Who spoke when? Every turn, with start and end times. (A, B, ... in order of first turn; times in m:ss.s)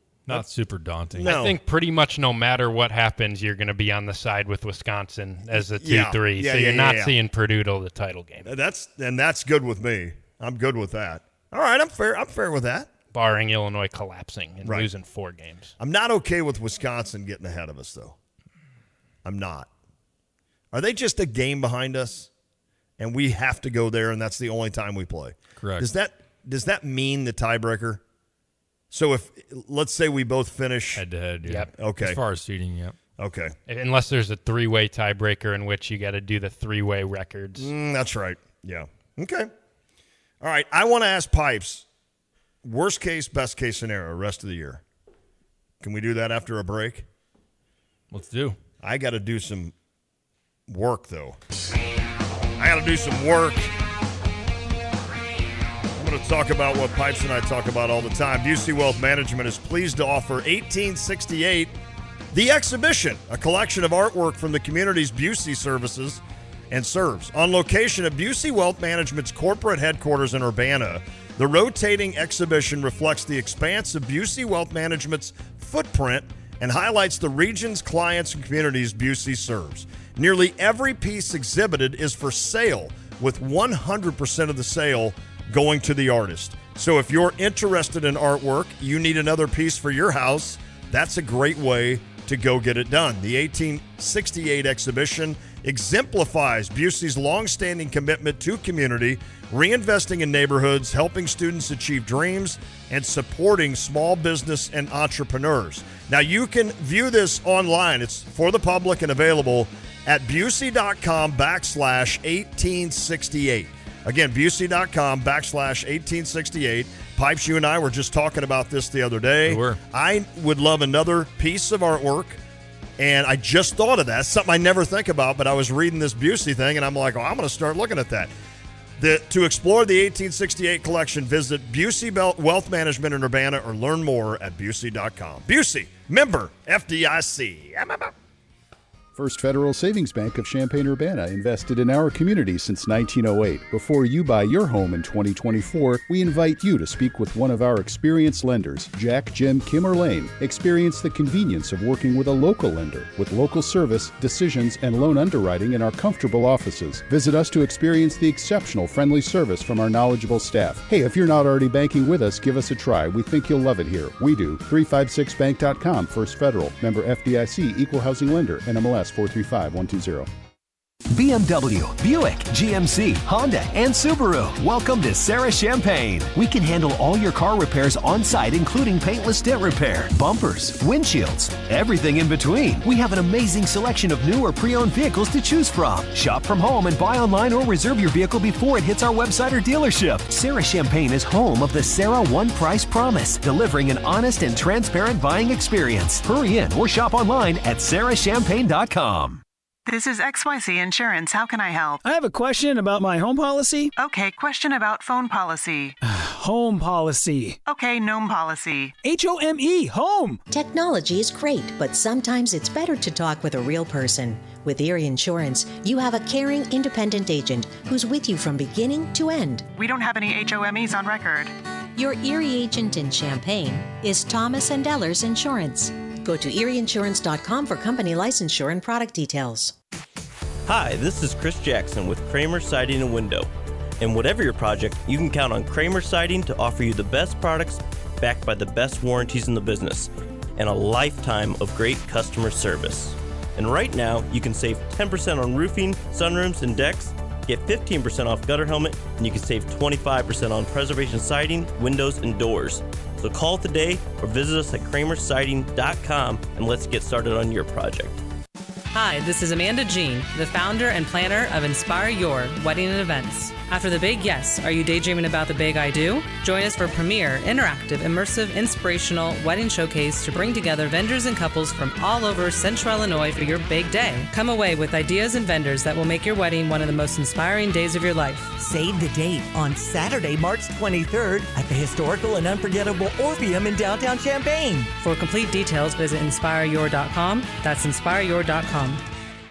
0:00.3-0:01.4 A
0:01.2-0:01.6 B
0:01.2-0:08.5 C
0:05.5-0:07.2 B
0:08.4-0:12.9 B
0:13.1-0:15.7 C
0:14.6-0:14.9 B
0:15.8-0:18.2 B
0:19.2-0:19.7 B
0:20.7-0:22.3 B
0:23.0-0:28.0 B
0:25.6-0:25.9 A
0:28.9-0:31.0 B
0:31.0-0:33.0 A
0:31.8-0:32.2 B
0:33.2-0:33.6 B
0:33.7-0:37.7 C
0:37.6-0:39.5 B
0:40.4-0:41.9 B
0:42.6-0:44.8 B
0:45.8-0:47.1 B
0:48.1-0:48.6 A
0:48.8-0:49.7 B
0:50.7-0:51.4 B
0:52.6-0:53.7 B
0:56.0-1:01.8 B
1:02.3-2:02.4 B
1:59.5-1:59.8 A
2:03.0-2:08.3 B
2:09.0-2:18.1 B
2:19.2-2:50.3 D
2:51.1-3:19.4 E
3:19.9-3:22.0 F
3:22.0-3:23.9 G
3:24.0-3:26.0 F
3:26.1-3:27.6 G
3:27.7-3:29.0 F
3:29.0-3:29.3 H
3:29.0-3:30.4 G
3:30.5-3:39.7 H
3:39.8-3:41.5 F
3:42.0-3:49.7 H
3:50.7-3:53.5 I
3:54.0-4:18.2 I
4:18.9-4:38.5 J
4:38.6-4:44.9 K
4:45.0-4:49.0 J